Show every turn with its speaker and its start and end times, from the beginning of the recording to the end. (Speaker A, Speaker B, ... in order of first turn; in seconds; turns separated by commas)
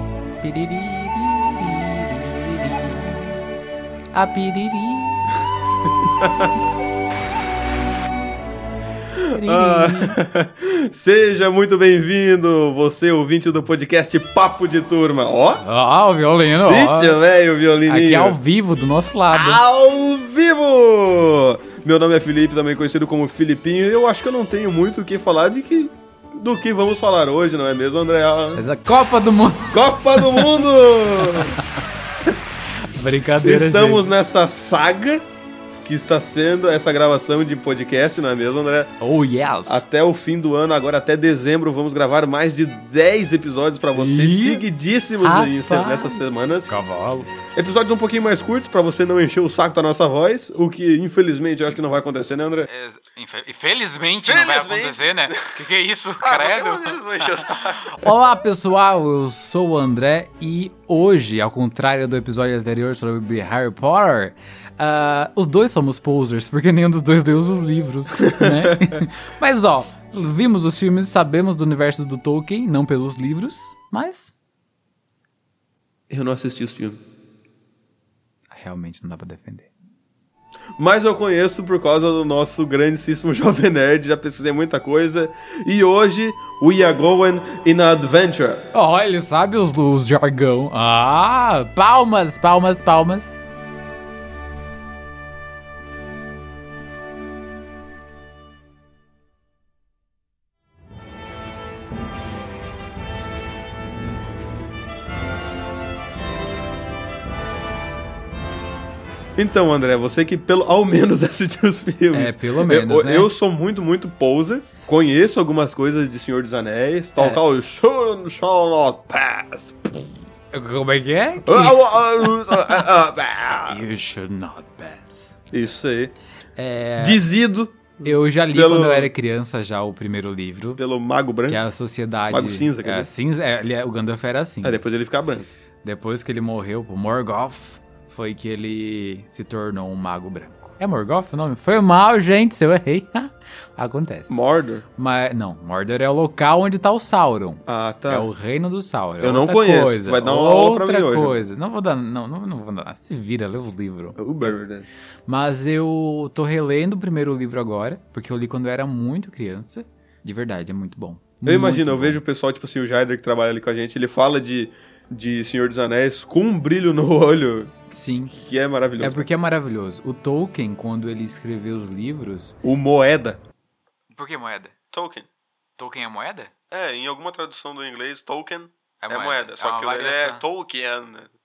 Speaker A: 0.4-3.3, Speaker A: 4.1-5.2, Speaker B: 6.0-6.5, Speaker B: 9.2-15.6, Speaker A: 9.3-10.2, Speaker A: 15.6-17.2, Speaker B: 16.7-18.4, Speaker A: 17.9-19.6, Speaker B: 19.3-28.6, Speaker A: 28.6-30.6, Speaker B: 29.7-31.6, Speaker A: 31.1-31.9, Speaker A: 32.8-34.1, Speaker B: 33.4-35.2, Speaker B: 35.8-38.9, Speaker A: 39.0-39.8, Speaker B: 39.7-46.8, Speaker A: 43.9-44.6, Speaker A: 45.2-47.3, Speaker B: 47.5-52.7, Speaker A: 52.7-74.3, Speaker B: 54.2-55.4, Speaker B: 56.2-58.1, Speaker B: 68.2-69.0, Speaker B: 76.1-77.0, Speaker A: 78.5-79.7, Speaker B: 80.8-88.6, Speaker A: 88.7-93.4, Speaker B: 109.3-120.1, Speaker A: 112.1-113.3, Speaker A: 120.5-122.8, Speaker B: 121.4-123.8, Speaker A: 123.7-125.3, Speaker B: 125.5-126.1, Speaker A: 126.6-127.2, Speaker B: 127.0-129.1, Speaker A: 128.0-130.8, Speaker B: 130.8-131.6, Speaker A: 131.5-134.8, Speaker B: 132.3-133.1, Speaker B: 134.6-135.5, Speaker A: 135.8-144.4, Speaker B: 144.3-144.8, Speaker A: 145.0-154.6, Speaker B: 147.7-148.3, Speaker B: 149.2-151.4, Speaker B: 154.2-154.9, Speaker A: 155.3-162.2, Speaker B: 161.4-167.7, Speaker A: 167.9-168.4, Speaker B: 168.3-169.3, Speaker A: 169.0-172.6, Speaker B: 172.6-173.4, Speaker A: 174.1-174.8, Speaker B: 174.9-175.3, Speaker A: 175.8-176.5, Speaker B: 176.7-181.3, Speaker A: 179.0-180.4